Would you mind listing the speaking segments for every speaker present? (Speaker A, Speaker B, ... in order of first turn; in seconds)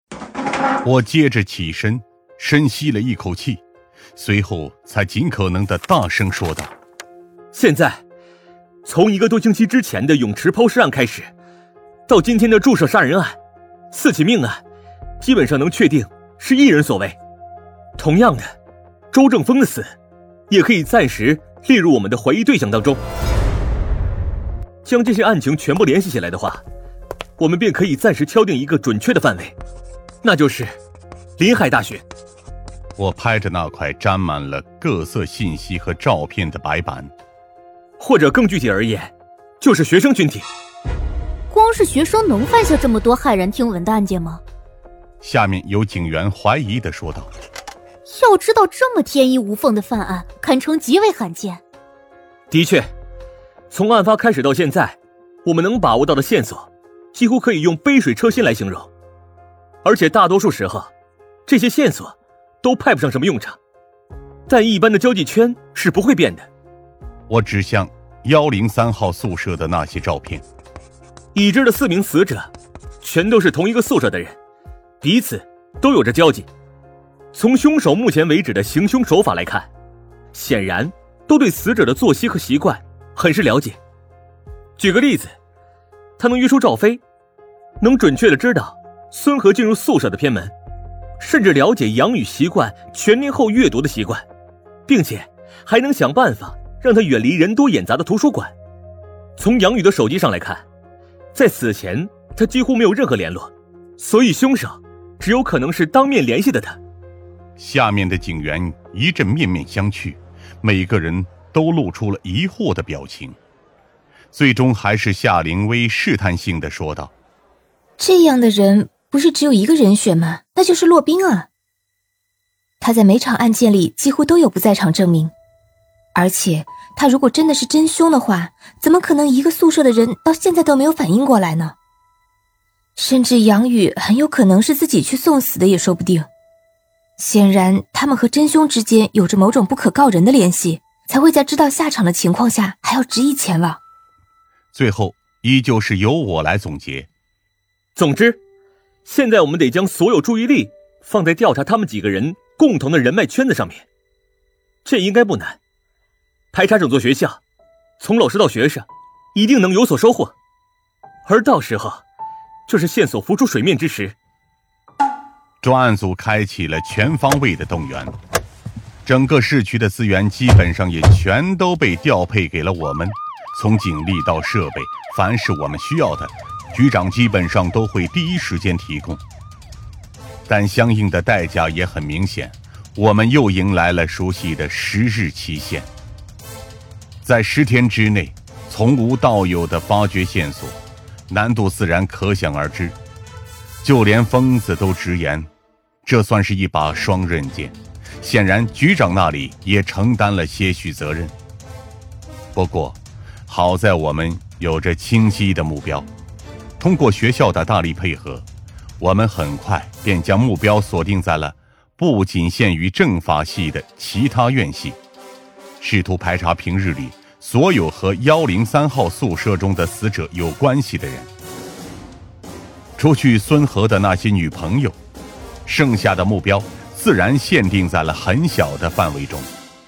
Speaker A: 0.8-3.6, 4.2-6.7, 33.0-37.1, 45.2-47.3, 67.3-70.4, 107.6-113.4, 114.3-117.1, 144.7-147.1, 165.6-168.1, 169.1-179.2, 180.5-185.9, 187.2-193.0, 193.8-195.5, 196.1-201.3, 202.5-206.1, 206.8-208.5, 209.0-215.0, 215.8-221.3, 223.0-225.0, 225.7-229.5
Speaker B: 7.5-8.0, 8.8-11.3, 12.1-13.4, 13.9-14.6, 15.2-17.2, 18.0-18.5, 19.1-19.9, 20.5-23.0, 24.9-26.6, 27.4-29.6, 30.2-30.8, 31.4-32.0, 38.0-40.5, 52.5-52.9, 53.7-58.9, 59.8-60.9, 61.5-63.6, 64.5-66.5, 71.3-72.5, 73.0-74.4, 75.0-76.5, 77.3-79.7, 80.3-83.8, 84.8-85.3, 86.2-87.0, 87.8-90.5, 91.2-94.2, 94.9-98.5, 99.4-100.7, 101.3-106.8, 148.0-148.4, 149.1-153.9, 154.8-155.6, 156.5-157.4, 158.0-160.3, 161.3-162.0, 162.7-164.2
Speaker C: 41.5-44.4, 48.1-51.6
Speaker D: 118.0-121.5, 122.8-125.3, 126.2-131.8, 133.0-136.3, 137.2-143.8